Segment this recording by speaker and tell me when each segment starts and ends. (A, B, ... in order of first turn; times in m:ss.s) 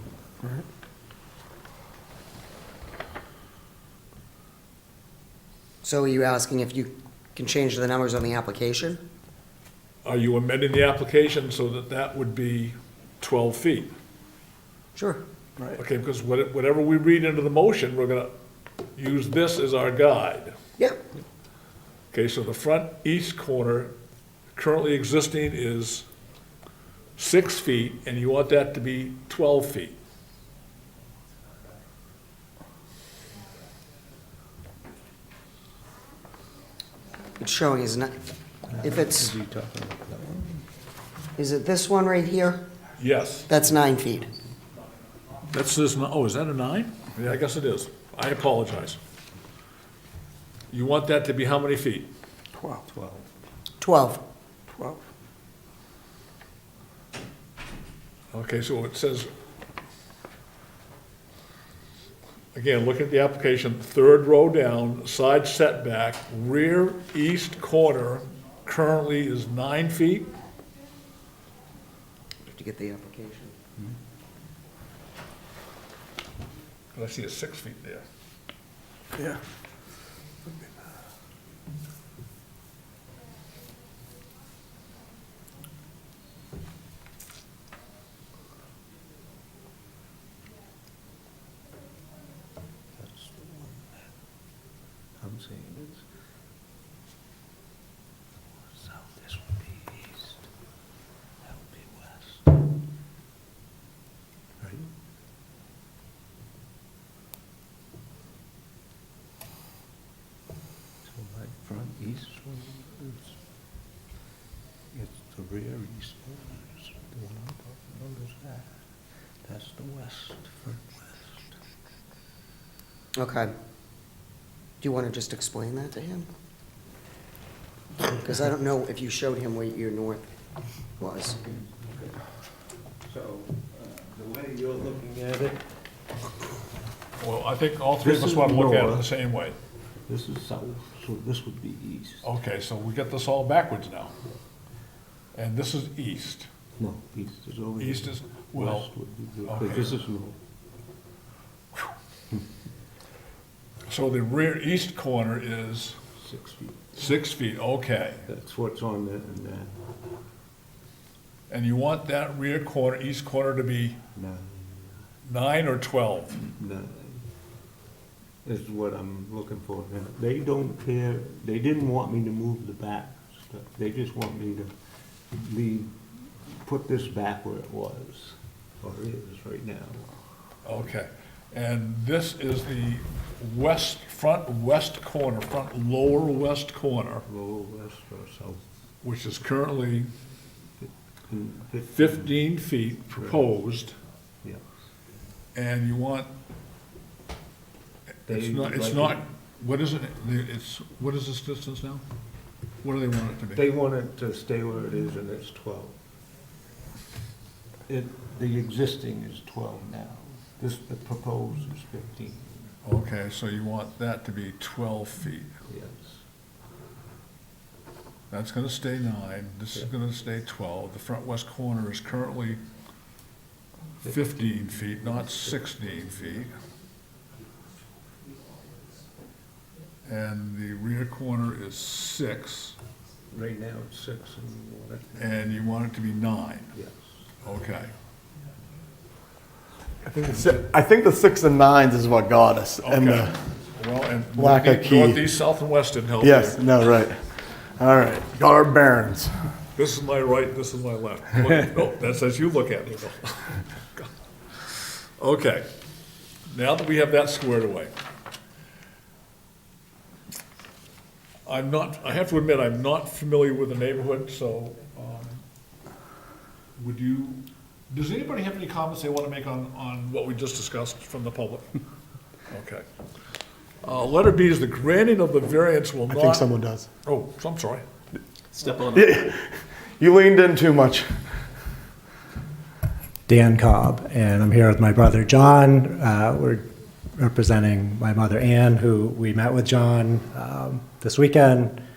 0:05.8-0:09.0 A
0:10.0-0:13.9 B
0:15.0-0:15.2 A
0:15.7-0:18.3 B
0:19.0-0:20.5 B
0:22.1-0:23.9 B
0:24.5-0:26.0 B
0:27.2-0:30.0 B
0:37.4-0:38.1 A
0:38.7-0:40.6 C
0:38.8-0:39.3 A
0:41.4-0:42.6 A
0:43.0-0:43.5 B
0:43.5-0:44.3 A
0:45.5-0:49.0 B
0:50.7-0:52.1 B
0:52.6-0:53.2 C
0:53.8-0:54.2 A
0:58.3-0:59.3 B
1:02.5-1:10.3 B
1:12.4-1:13.5 A
1:16.9-1:18.0 B
1:33.0-1:34.0 C
1:35.2-1:36.0 C
1:38.6-1:40.5 C
1:41.4-1:42.4 C
1:44.6-1:44.9 C
1:51.0-1:53.4 C
1:54.9-1:58.8 C
1:59.4-2:01.5 C
2:03.2-2:03.5 A
2:04.8-2:06.3 A
2:08.0-2:10.2 A
2:11.0-2:11.4 A
2:11.5-2:11.9 C
2:13.1-2:15.6 C
2:17.2-2:19.6 B
2:18.0-2:19.1 C
2:20.1-2:22.2 C
2:22.2-2:24.1 B
2:25.3-2:26.5 B
2:26.8-2:30.4 C
2:27.8-2:28.9 B
2:29.5-2:30.0 B
2:33.9-2:36.0 B
2:36.2-2:36.9 C
2:37.0-2:38.2 B
2:38.3-2:39.7 C
2:41.5-2:44.0 B
2:44.2-2:44.9 C
2:45.2-2:46.4 B
2:46.4-2:47.2 C
2:48.4-2:54.7 C
2:55.3-3:00.0 C
3:00.6-3:07.2 B
3:07.2-3:08.6 C
3:09.0-3:10.1 B
3:10.8-3:12.4 C
3:11.9-3:14.0 B
3:15.5-3:16.3 B
3:18.3-3:19.2 C
3:18.3-3:22.0 B
3:22.8-3:23.6 B
3:23.5-3:25.9 C
3:27.9-3:32.7 C
3:32.8-3:35.5 B
3:35.7-3:36.2 C
3:38.3-3:42.6 B
3:44.0-3:46.5 B
3:44.0-3:46.4 C
3:50.0-3:52.8 B
3:53.3-3:55.3 C
3:55.2-3:56.7 B
3:56.7-3:57.1 C
3:57.4-3:57.9 B
4:00.0-4:03.4 D
4:02.8-4:06.7 B
4:04.4-4:05.2 D
4:06.2-4:09.5 D
4:09.7-4:14.1 B
4:14.7-4:15.6 B
4:16.5-4:17.9 B
4:21.4-4:25.4 B
4:26.8-4:31.8 B
4:32.5-4:32.8 B
4:33.8-4:36.5 B
4:36.1-4:36.9 D
4:37.0-4:37.8 B
4:38.9-4:41.4 D
4:43.3-4:51.8 E